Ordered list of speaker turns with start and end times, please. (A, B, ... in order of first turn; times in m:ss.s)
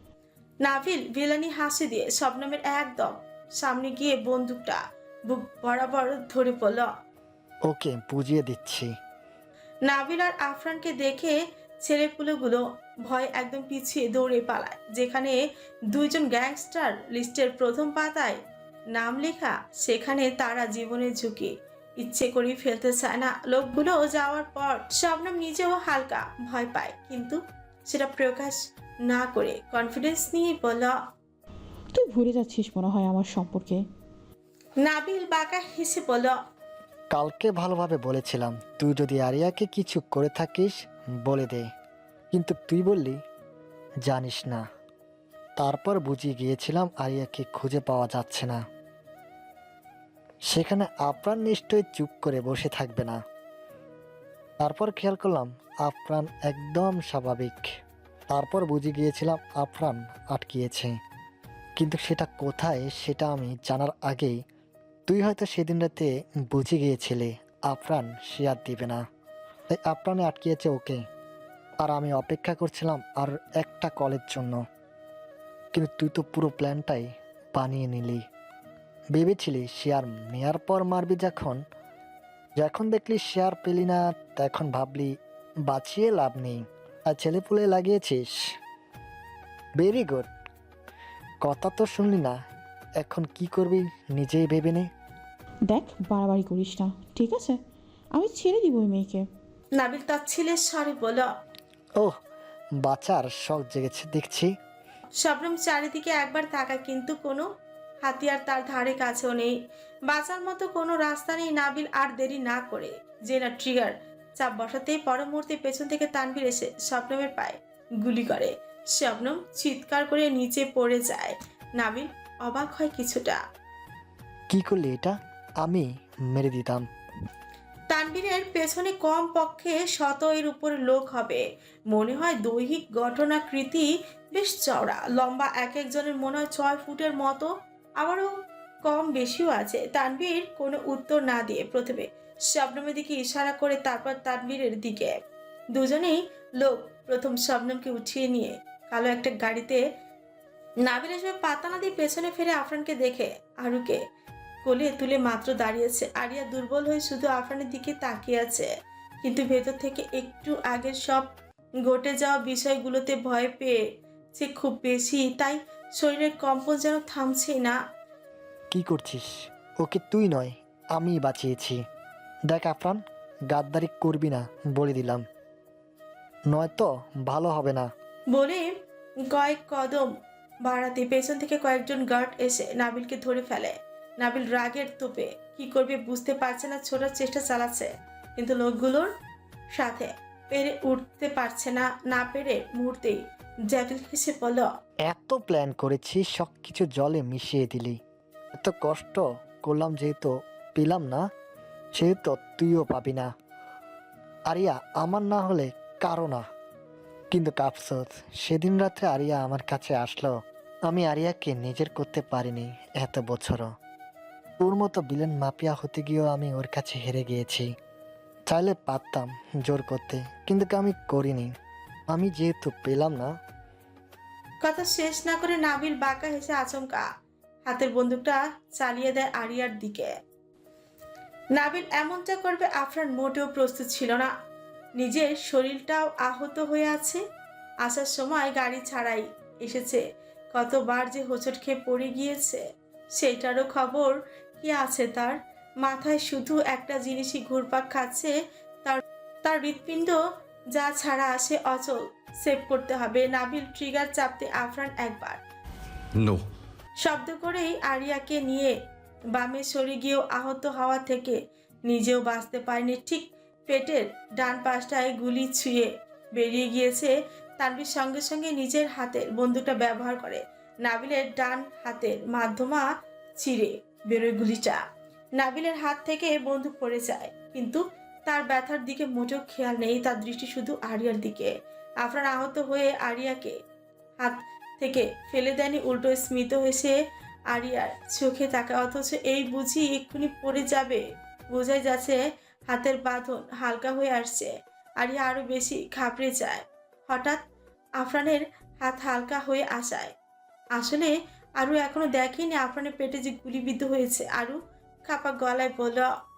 0:00.6-0:06.9 A
0:07.7-0:08.9 B
0:09.9-0:15.4 A
0:15.9-0:18.4 A
0:18.9-0:30.9 A
0:31.9-0:33.8 C
0:34.8-0:36.3 A
0:37.1-0:41.7 B
0:42.3-0:43.2 B
0:44.0-0:44.6 B
0:45.6-0:48.6 B
0:50.5-0:53.2 B
0:54.6-0:57.7 B
0:58.3-1:01.0 B
1:01.8-1:04.4 B
1:05.1-1:09.0 B
1:09.7-1:11.0 B
1:11.8-1:14.6 B
1:15.7-1:18.2 B
1:19.1-1:21.6 B
1:22.6-1:25.1 B
1:25.7-1:28.3 B
1:29.8-1:30.3 B
1:31.4-1:32.4 B
1:33.0-1:34.9 B
1:35.7-1:37.6 C
1:38.1-1:39.2 C
1:39.8-1:41.3 A
1:42.8-1:44.5 B
1:45.2-1:47.4 A
1:48.0-1:49.5 A
1:50.1-2:03.4 A
2:04.5-2:06.8 B
2:07.9-2:18.3 A
2:18.8-2:25.2 A
2:25.7-2:29.8 A
2:30.8-2:34.0 A
2:34.6-2:38.7 A
2:39.2-2:41.3 A
2:41.8-2:43.8 A
2:44.4-2:47.8 A
2:48.7-2:51.8 B
2:52.5-2:55.2 B
2:56.5-2:57.9 B
2:58.3-2:58.7 A
2:59.2-3:00.1 A
3:00.6-3:09.1 A
3:09.8-3:13.2 A
3:13.7-3:14.7 A
3:15.1-3:18.0 B
3:18.6-3:21.2 B
3:22.0-3:23.3 B
3:24.5-3:26.4 B
3:27.3-3:33.7 B
3:34.6-3:37.7 B
3:38.5-3:41.5 B
3:42.1-3:43.3 B
3:44.6-3:47.0 A
3:47.6-3:50.1 A
3:51.6-3:54.3 A
3:55.0-3:57.2 A
3:57.8-4:02.6 A
4:03.2-4:08.3 A
4:08.8-4:10.2 A
4:10.7-4:15.4 A
4:17.0-4:18.7 A
4:19.4-4:32.9 A
4:33.4-4:34.8 A
4:35.4-4:43.5 A
4:44.2-4:46.9 A
4:47.5-4:51.0 A
4:51.5-4:57.4 A
4:58.0-5:00.1 A
5:00.8-5:04.6 A
5:05.1-5:06.1 A